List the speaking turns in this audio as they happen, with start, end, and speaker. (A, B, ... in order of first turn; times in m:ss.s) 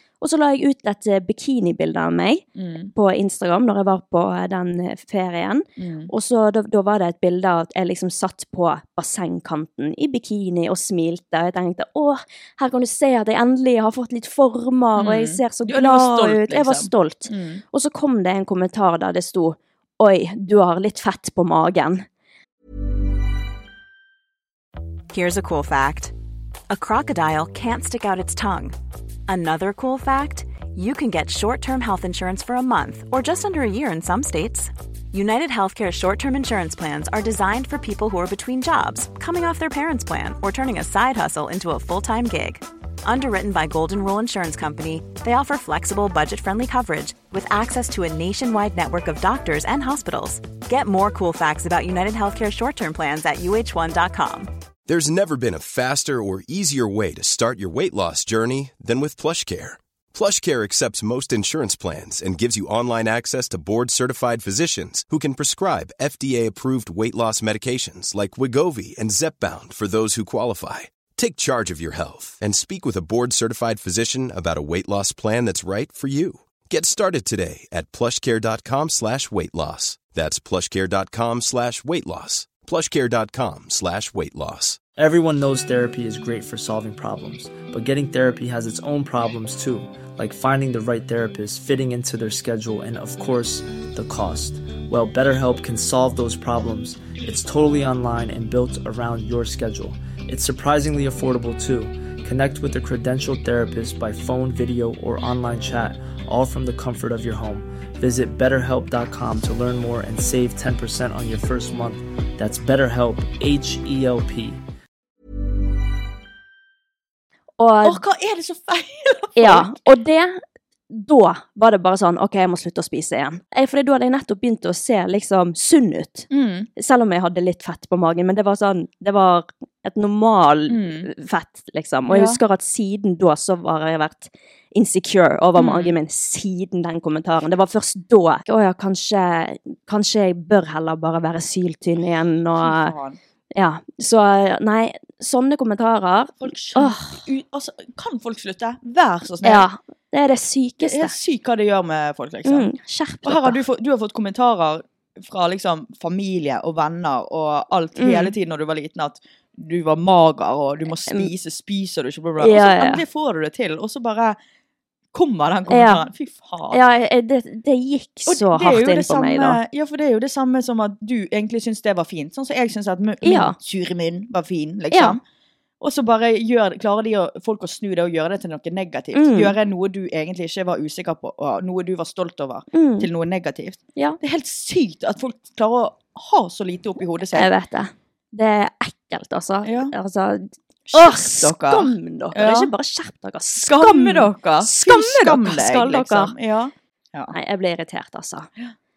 0:00.2-0:22.0 A
0:02.6-0:02.9 B
0:05.8-0:06.1 B
0:15.0-0:17.6 B
0:25.1-0:26.1 C
0:26.7-0:28.8 C
0:29.3-0:54.5 C
0:54.9-1:24.8 D
1:25.0-1:54.6 E
1:57.6-1:58.0 A
1:57.8-1:59.7 B
1:59.4-2:22.9 A
2:06.3-2:06.7 B
2:10.7-2:11.1 B
2:12.1-2:12.4 B
2:15.6-2:15.9 B
2:22.6-2:23.2 B
2:23.5-2:27.2 A
2:26.4-2:29.6 B
2:29.4-2:31.1 A
2:30.8-2:32.7 B
2:32.4-2:33.6 A
2:33.2-2:44.4 B
2:38.0-2:38.3 A
2:42.4-2:43.0 A
2:45.1-2:46.8 B
2:45.7-2:46.0 A
2:46.7-2:49.6 A
2:48.3-2:55.2 B
2:53.2-2:53.5 A
2:54.9-2:55.2 A
2:55.8-3:07.5 B
2:59.1-2:59.5 A
3:02.7-3:03.1 A
3:07.3-3:16.3 A
3:09.6-3:09.9 B
3:10.9-3:12.7 B
3:13.6-3:17.3 B
3:17.3-3:18.5 A